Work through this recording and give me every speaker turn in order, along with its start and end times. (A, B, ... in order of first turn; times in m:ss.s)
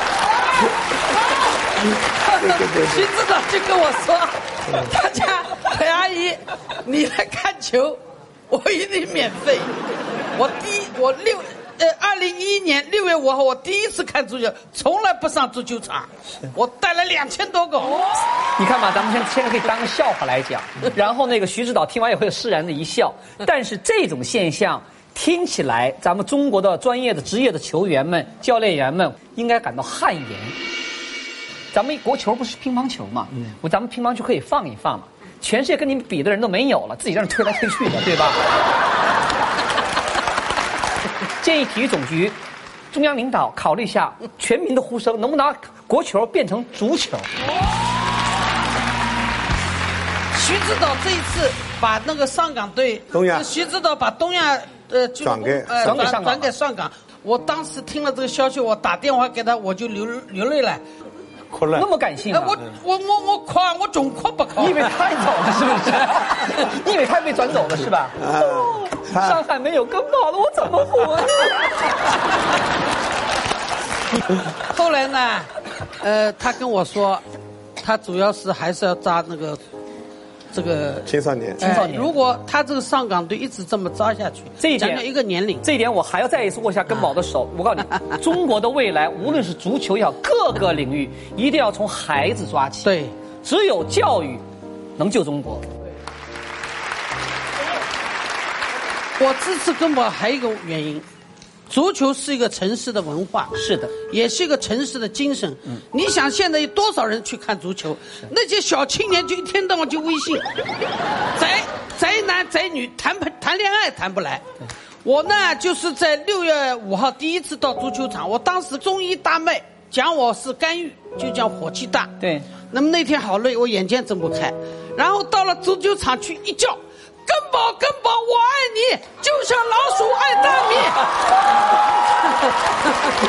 0:02.0-0:08.0 A
0:02.3-0:03.1 B
0:04.6-0:04.9 B
0:08.5-0:09.7 A
0:10.3-0:18.1 A
0:18.6-0:30.5 C
0:31.7-0:38.4 C
0:41.4-0:42.4 C
0:42.9-0:47.3 C
0:50.3-1:00.8 A
0:53.1-0:53.5 B
0:55.2-0:56.1 B
0:55.8-0:56.5 C
1:01.5-1:01.9 B
1:01.7-1:02.6 C
1:02.2-1:04.9 A
1:04.6-1:11.9 C
1:08.2-1:09.4 B
1:14.6-1:15.5 A
1:16.0-1:17.2 A
1:17.8-1:19.6 A
1:20.5-1:21.1 A
1:21.0-1:21.7 B
1:21.6-1:22.1 C
1:21.6-1:25.6 A
1:24.6-1:25.0 C
1:25.6-1:34.4 C
1:32.8-1:33.1 A
1:35.0-1:35.7 C
1:39.2-1:41.0 A
1:41.7-1:50.5 A
1:43.5-1:44.0 C
1:51.4-1:54.4 A
1:55.0-2:02.1 A
2:02.2-2:02.5 C
2:02.7-2:11.1 A
2:12.4-2:12.9 A